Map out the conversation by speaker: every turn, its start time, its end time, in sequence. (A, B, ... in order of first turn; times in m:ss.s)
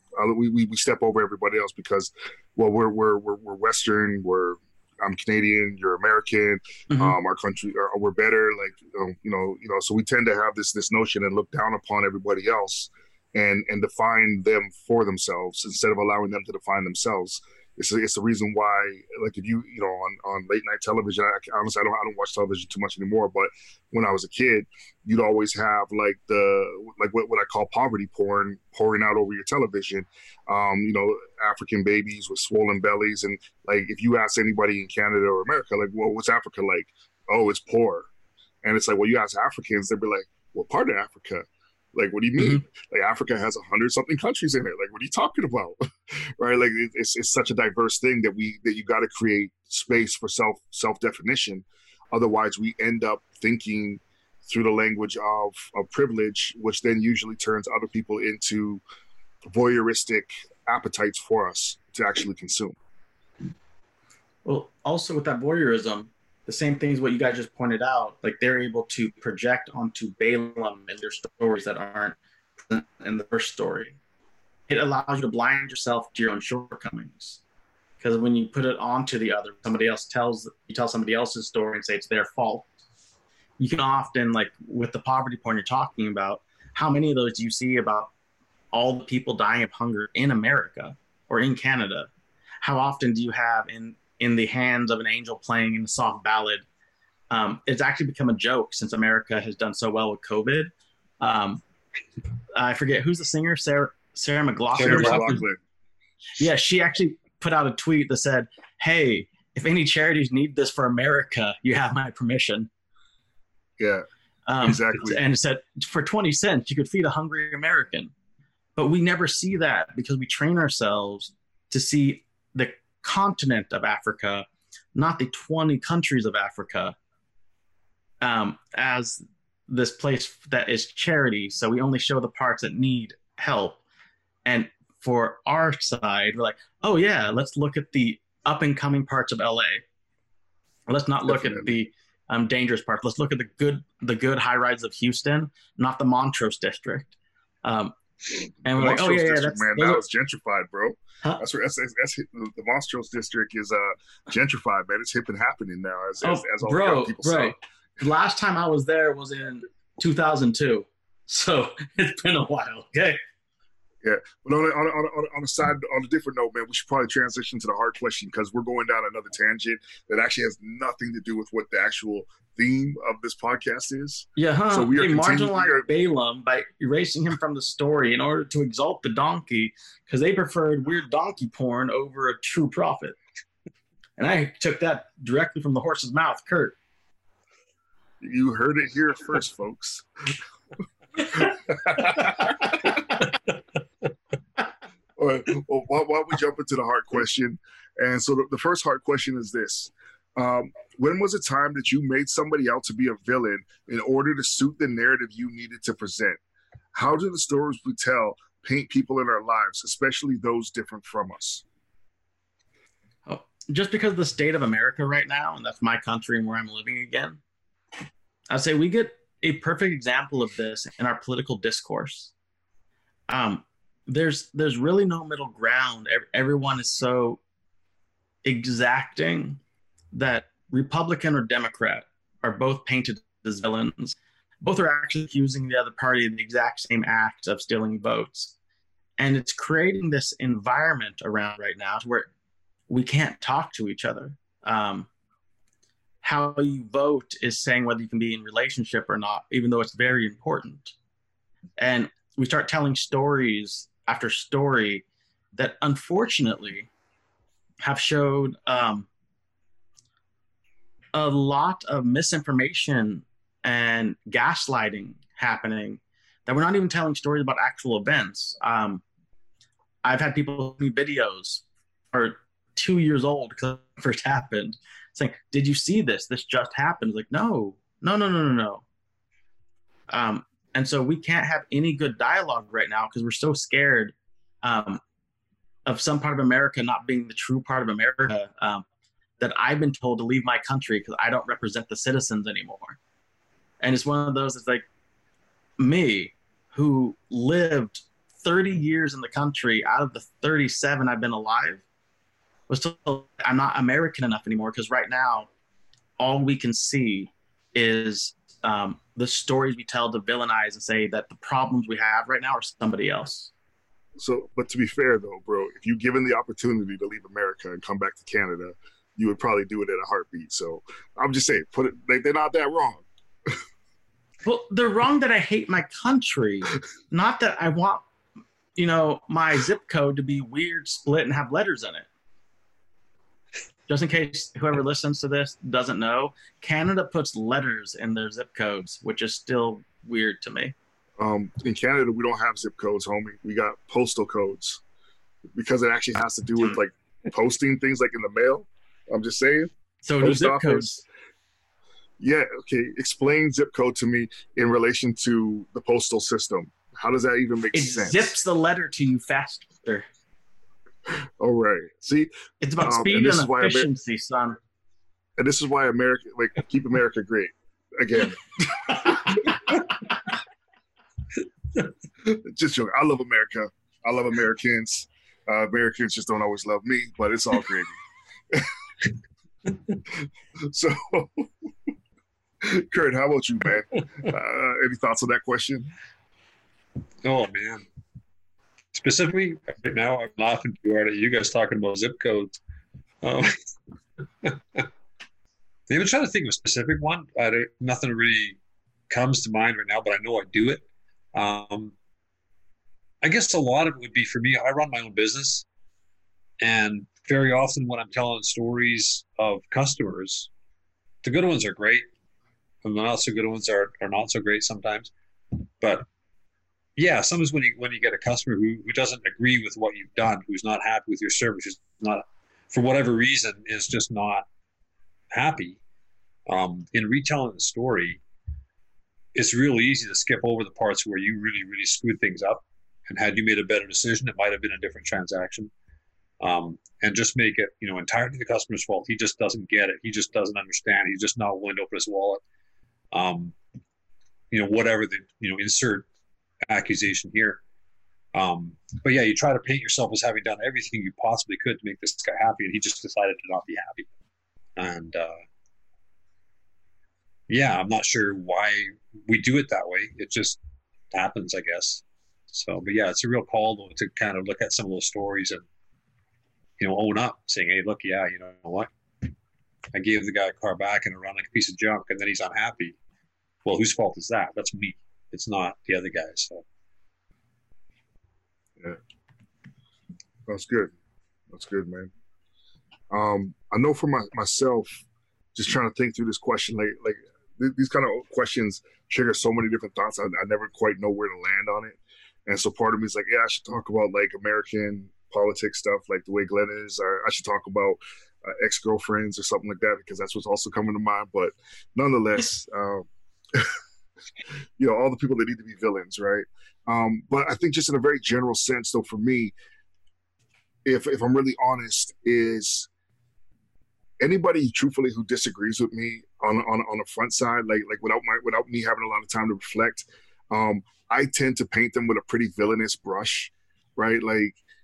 0:00.2-0:38.1 A
0:06.9-0:07.2 B
0:38.6-0:58.8 A
0:59.5-1:02.8 A
1:04.4-1:14.0 B
1:14.7-1:17.4 B
1:18.0-1:22.7 B
1:23.6-1:28.1 B
1:28.7-1:32.1 B
1:32.6-1:36.6 B
1:37.3-1:41.6 B
1:42.5-1:45.4 B
1:44.8-1:45.2 C
1:44.8-1:45.6 A
1:46.4-1:52.7 B
1:53.8-1:54.0 A
1:54.5-1:58.1 B
1:54.6-1:55.2 A
1:58.8-2:06.9 B
2:08.2-2:13.8 B
2:14.4-2:19.8 B
2:20.9-2:27.1 B
2:21.2-2:21.7 A
2:27.6-2:28.0 B
2:28.6-2:30.0 B
2:28.7-2:37.5 A
2:36.2-2:43.2 B
2:44.0-2:55.9 A
2:54.4-3:03.2 B
3:04.2-3:06.8 B
3:08.2-3:10.0 A
3:11.3-3:13.0 A
3:15.2-3:26.4 A
3:26.9-3:31.6 A
3:33.3-3:37.4 B
3:38.5-3:42.3 B
3:43.3-3:47.4 B
3:48.4-3:49.6 B
3:50.1-3:58.5 B
3:59.2-4:02.3 B
4:02.9-4:05.1 B
4:06.2-4:10.9 B
4:11.8-4:16.9 B
4:17.8-4:19.1 B
4:21.1-4:29.0 B
4:30.0-4:38.8 B
4:40.1-4:45.0 B
4:45.8-4:48.8 B
4:49.4-4:53.0 B
4:53.8-4:54.8 B
4:55.8-5:01.8 B
5:02.7-5:05.5 B
5:06.2-5:13.5 B
5:14.2-5:23.0 A
5:24.4-5:28.0 B
5:28.8-5:32.1 B
5:33.9-5:40.7 B
5:41.2-5:44.8 A
5:45.6-5:50.9 A
5:50.0-5:51.0 B
5:52.2-5:58.3 A
5:57.7-6:00.0 B
6:01.4-6:03.9 A
6:02.6-6:04.6 B
6:05.4-6:09.7 A
6:12.2-6:18.0 A
6:20.6-6:21.5 A
6:22.6-6:25.9 A
6:27.2-6:27.8 C
6:28.9-6:32.6 C
6:33.2-6:33.5 C
6:34.4-6:34.9 C
6:35.9-6:38.6 C
6:39.1-6:41.9 C
6:43.2-6:45.6 C
6:46.6-6:50.5 C
6:51.2-6:52.1 C
6:52.8-6:56.1 C
6:57.0-7:04.4 C
7:05.3-7:05.8 C
7:06.5-7:08.2 C
7:09.3-7:15.7 C
7:16.4-7:22.4 C
7:23.1-7:23.6 C
7:24.5-7:26.0 C
7:26.7-7:27.6 C
7:28.3-7:34.1 C
7:34.8-7:35.4 C
7:37.5-7:40.6 C
7:41.1-7:45.6 C
7:46.8-7:49.3 C
7:49.9-7:53.0 C
7:53.6-7:56.6 C
8:00.5-8:00.9 A
8:01.5-8:02.1 A
8:03.1-8:05.0 A
8:05.5-8:23.7 A
8:24.8-8:29.5 A
8:30.8-8:32.9 A
8:34.2-8:44.6 A